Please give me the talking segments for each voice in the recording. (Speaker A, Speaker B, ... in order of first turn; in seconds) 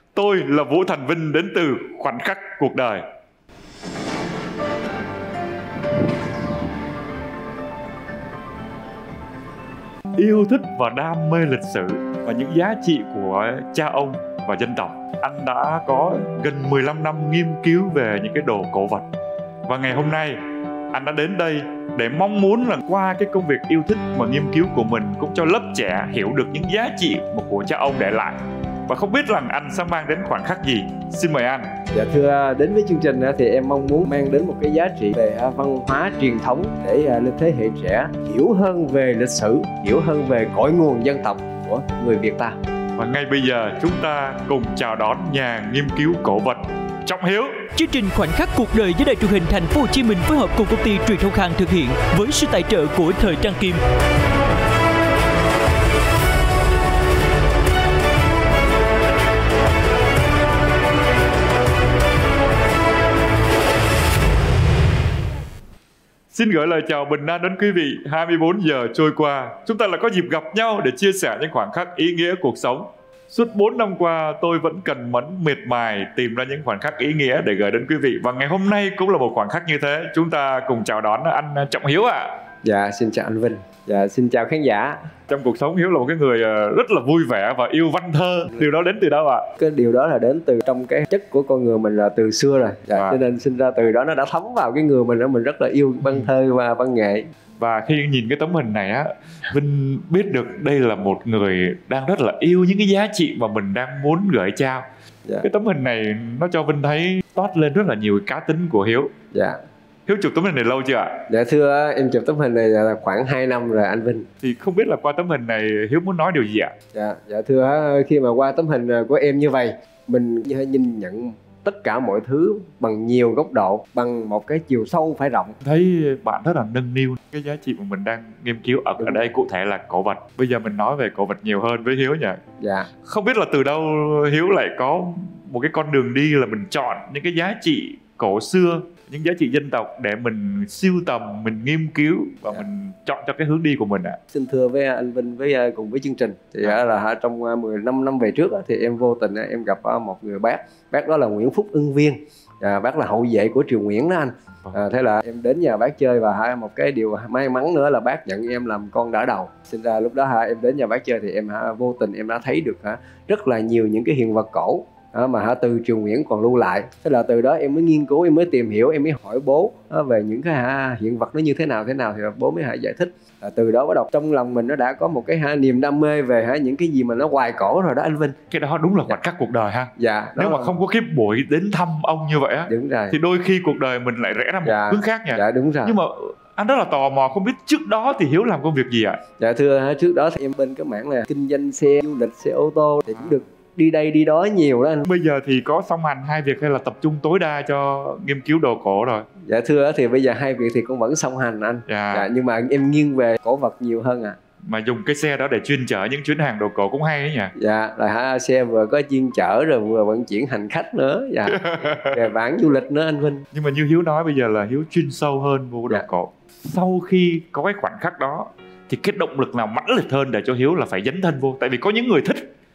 Speaker A: 0.1-3.0, 10.2-19.1, 19.7-20.4, 20.9-28.4, 28.9-31.7, 43.0-47.7, 66.3-82.4, 85.3-89.5, 92.9-93.2, 97.6-104.8, 105.4-109.1, 110.1-111.2, 114.4-116.7, 125.6-132.4, 133.0-144.2, 178.5-189.2, 195.1-199.3, 201.9-202.3, 204.7-207.5, 211.5-212.2, 213.5-222.5
Speaker B: 31.9-42.6, 82.6-85.0, 89.6-97.3, 109.3-109.6, 111.3-114.3, 116.9-125.6, 129.0-129.3, 132.6-132.9, 144.3-178.4, 180.0-180.8, 182.7-183.2, 184.6-186.0, 189.4-195.1, 199.5-204.4, 207.6-213.4
Speaker C: 47.7-53.8